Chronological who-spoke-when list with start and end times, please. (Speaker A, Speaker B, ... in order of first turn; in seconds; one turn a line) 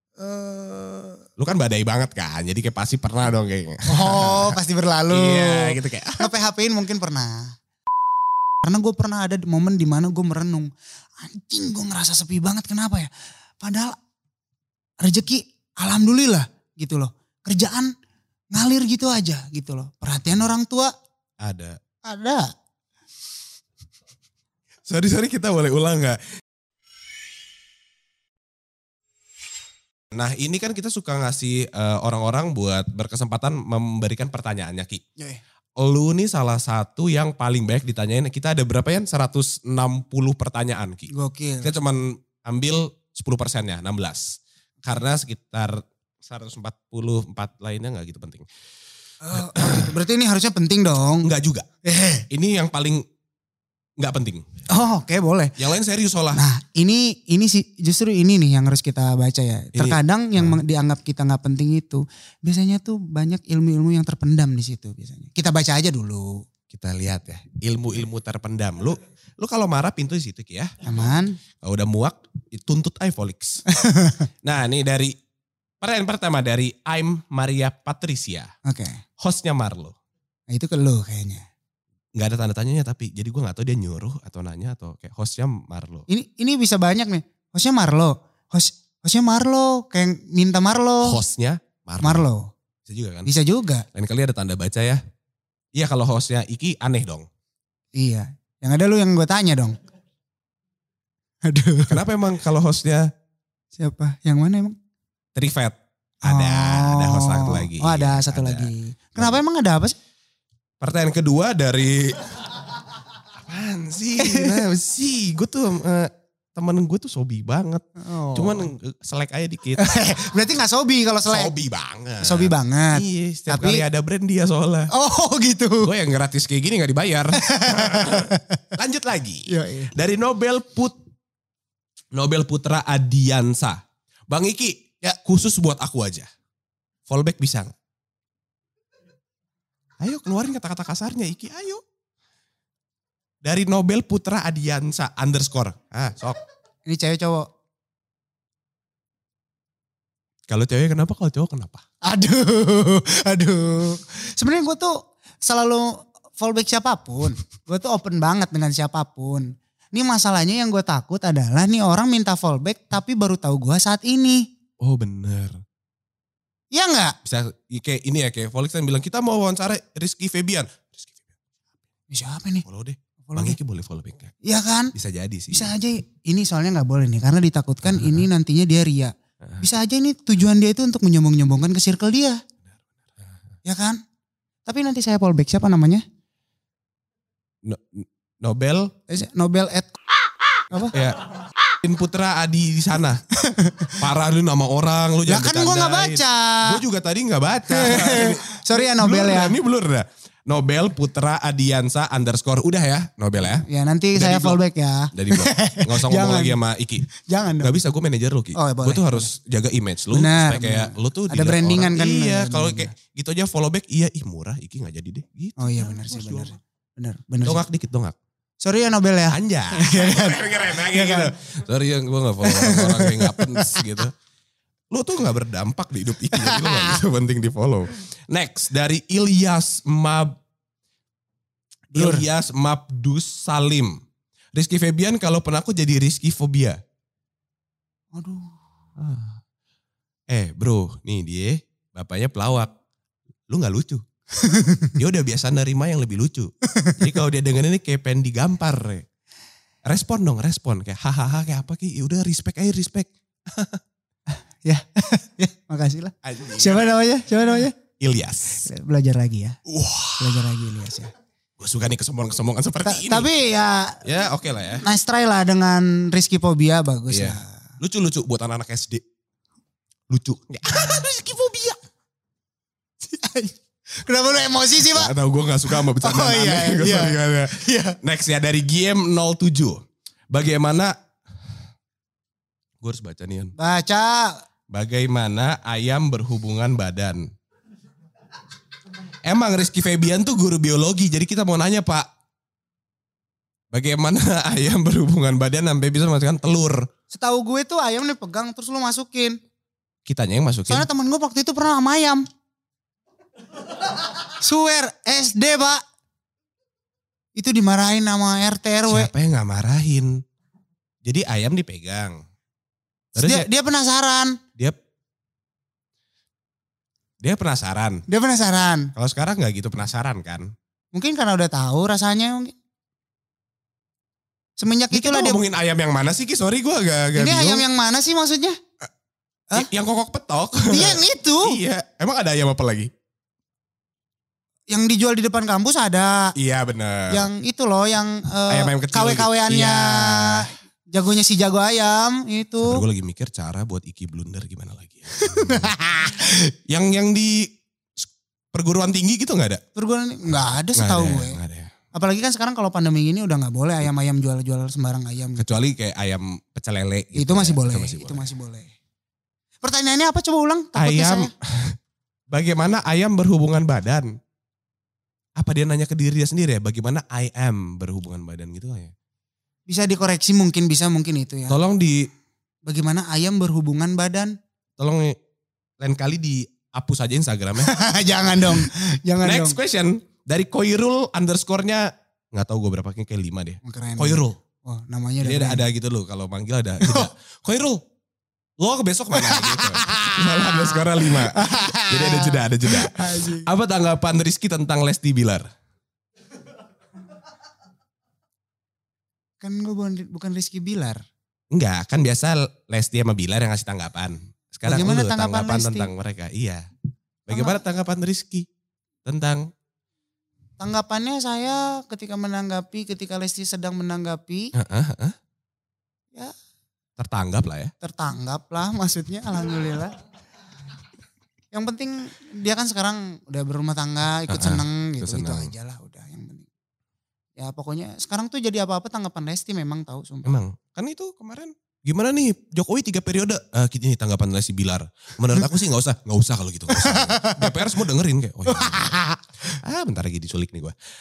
Speaker A: 0.2-1.2
Speaker B: 1.4-4.6
Speaker A: 3.9-7.5
Speaker B: 5.1-6.3
Speaker A: 8.6-13.1
Speaker A: 13.6-14.0
Speaker A: 15.0-17.9
Speaker A: 18.5-20.9
Speaker B: 21.4-21.8
Speaker A: 22.1-22.5
Speaker B: 24.9-26.2
Speaker B: 30.1-35.0
Speaker B: 35.8-41.1
Speaker A: 41.1-41.7
Speaker B: 41.6-48.5
Speaker A: 49.2-51.3
Speaker B: 49.3-50.0
Speaker B: 51.2-51.7
Speaker A: 51.9-52.3
Speaker B: 52.3-53.0
Speaker B: 54.0-54.5
Speaker A: 54.7-55.6
Speaker B: 55.6-56.5
Speaker A: 56.3-66.4
Speaker B: 59.8-60.6
Speaker B: 66.7-70.7
Speaker A: 70.8-71.4
Speaker B: 71.6-73.6
Speaker A: 73.7-74.3
Speaker B: 74.4-75.2
Speaker B: 75.8-78.5
Speaker A: 78.7-79.0
Speaker B: 79.2-80.0
Speaker A: 80.5-81.5
Speaker B: 82.2-86.1
Speaker A: 86.1-91.2
Speaker B: 91.0-92.3
Speaker A: 92.0-92.5
Speaker B: 92.9-93.3
Speaker A: 93.3-93.9
Speaker B: 93.9-95.0
Speaker B: 95.8-97.3
Speaker A: 98.0-99.8
Speaker A: 101.5-102.0
Speaker B: 101.9-103.1
Speaker A: 103.8-104.8
Speaker B: 105.3-109.4
Speaker A: 106.2-110.0
Speaker B: 110.8-112.7
Speaker B: 113.3-120.1
Speaker A: 114.2-114.6
Speaker A: 118.0-118.7
Speaker A: 119.8-121.5
Speaker B: 121.3-124.9
Speaker A: 122.2-123.8
Speaker A: 124.9-125.9
Speaker B: 125.8-131.0
Speaker A: 127.3-128.7
Speaker A: 129.5-129.9
Speaker B: 132.1-136.3
Speaker B: 137.1-137.7
Speaker B: 140.0-141.8
Speaker B: 143.4-146.4
Speaker A: 146.9-147.5
Speaker B: 150.5-151.8
Speaker A: 152.0-164.5
Speaker B: 164.8-165.6
Speaker A: 166.7-167.2
Speaker B: 167.2-171.3
Speaker A: 172.1-172.7
Speaker B: 172.7-174.3
Speaker A: 173.3-173.6
Speaker A: 174.4-174.9
Speaker B: 174.9-175.7
Speaker A: 175.5-182.4
Speaker B: 177.8-178.3
Speaker A: 183.7-184.0
Speaker A: 184.7-186.0
Speaker B: 187.6-189.0
Speaker A: 189.1-189.9
Speaker A: 190.7-191.0
Speaker B: 190.9-193.2
Speaker A: 193.3-194.0
Speaker B: 194.0-204.6
Speaker A: 195.3-196.8
Speaker A: 197.7-199.6
Speaker A: 203.6-206.6
Speaker B: 205.1-207.1
Speaker A: 207.1-207.7
Speaker B: 207.6-216.6
Speaker A: 208.6-209.3
Speaker A: 210.1-212.9
Speaker A: 215.6-217.6
Speaker B: 217.4-218.2
Speaker A: 218.6-221.3
Speaker B: 219.3-224.1
Speaker A: 222.4-224.0
Speaker B: 224.9-230.3
Speaker A: 226.3-227.0
Speaker A: 231.9-232.2
Speaker B: 231.9-234.0
Speaker B: 234.5-236.8
Speaker A: 238.2-238.6
Speaker B: 239.0-239.4
Speaker B: 240.3-242.7
Speaker B: 243.5-244.0
Speaker A: 244.3-245.0
Speaker B: 245.0-249.1
Speaker A: 246.7-247.2
Speaker B: 249.9-253.8
Speaker A: 254.3-257.8
Speaker B: 256.2-257.0
Speaker B: 258.0-258.7
Speaker A: 258.6-259.6
Speaker B: 259.7-260.6
Speaker A: 260.2-261.1
Speaker B: 261.6-263.3
Speaker A: 262.8-264.0
Speaker B: 264.0-264.9
Speaker A: 264.8-267.6
Speaker B: 267.1-269.0
Speaker B: 270.1-271.8
Speaker A: 273.0-275.1
Speaker B: 274.8-280.9
Speaker A: 275.6-278.0
Speaker B: 282.8-283.5
Speaker A: 283.6-284.4
Speaker B: 284.7-287.3
Speaker B: 289.2-292.1
Speaker B: 293.7-296.9
Speaker A: 297.1-299.4
Speaker B: 300.1-300.9
Speaker A: 300.7-302.3
Speaker A: 304.3-305.8
Speaker A: 307.4-309.1
Speaker B: 308.9-310.2
Speaker B: 311.0-312.2
Speaker B: 313.1-313.5
Speaker A: 313.2-314.4
Speaker B: 317.2-318.1
Speaker A: 318.1-318.9
Speaker B: 319.0-320.5
Speaker A: 320.9-322.5
Speaker A: 324.6-325.4
Speaker B: 324.9-327.7
Speaker A: 327.1-328.6
Speaker B: 329.6-332.9
Speaker A: 330.7-331.6
Speaker A: 334.7-336.3
Speaker B: 336.4-337.3
Speaker A: 337.1-342.8
Speaker B: 338.5-340.5
Speaker B: 342.6-345.8
Speaker A: 345.1-346.5
Speaker B: 346.7-349.6
Speaker A: 349.8-351.4
Speaker B: 350.8-351.7
Speaker A: 351.9-355.6
Speaker B: 355.4-358.3
Speaker A: 357.1-358.7
Speaker A: 359.6-361.3
Speaker B: 360.8-361.8
Speaker B: 362.3-364.2
Speaker B: 365.4-368.9
Speaker A: 369.7-371.6
Speaker B: 371.5-372.1
Speaker A: 372.7-374.4
Speaker B: 374.8-375.2
Speaker B: 375.8-378.7
Speaker A: 377.6-379.6
Speaker B: 379.2-384.4
Speaker A: 383.6-385.6
Speaker B: 385.2-387.8
Speaker A: 386.8-387.1
Speaker B: 388.6-395.5
Speaker A: 389.1-393.5
Speaker A: 399.4-401.0
Speaker B: 401.5-406.6
Speaker A: 404.6-405.9
Speaker B: 407.3-408.5
Speaker A: 407.3-407.6
Speaker B: 409.1-409.5
Speaker A: 410.6-414.5
Speaker B: 414.6-415.2
Speaker B: 417.0-417.7
Speaker A: 417.8-420.0
Speaker A: 421.5-426.5
Speaker B: 424.3-425.5
Speaker A: 427.4-430.4
Speaker B: 430.2-439.0
Speaker A: 436.7-437.8
Speaker A: 438.5-439.6
Speaker B: 439.5-440.8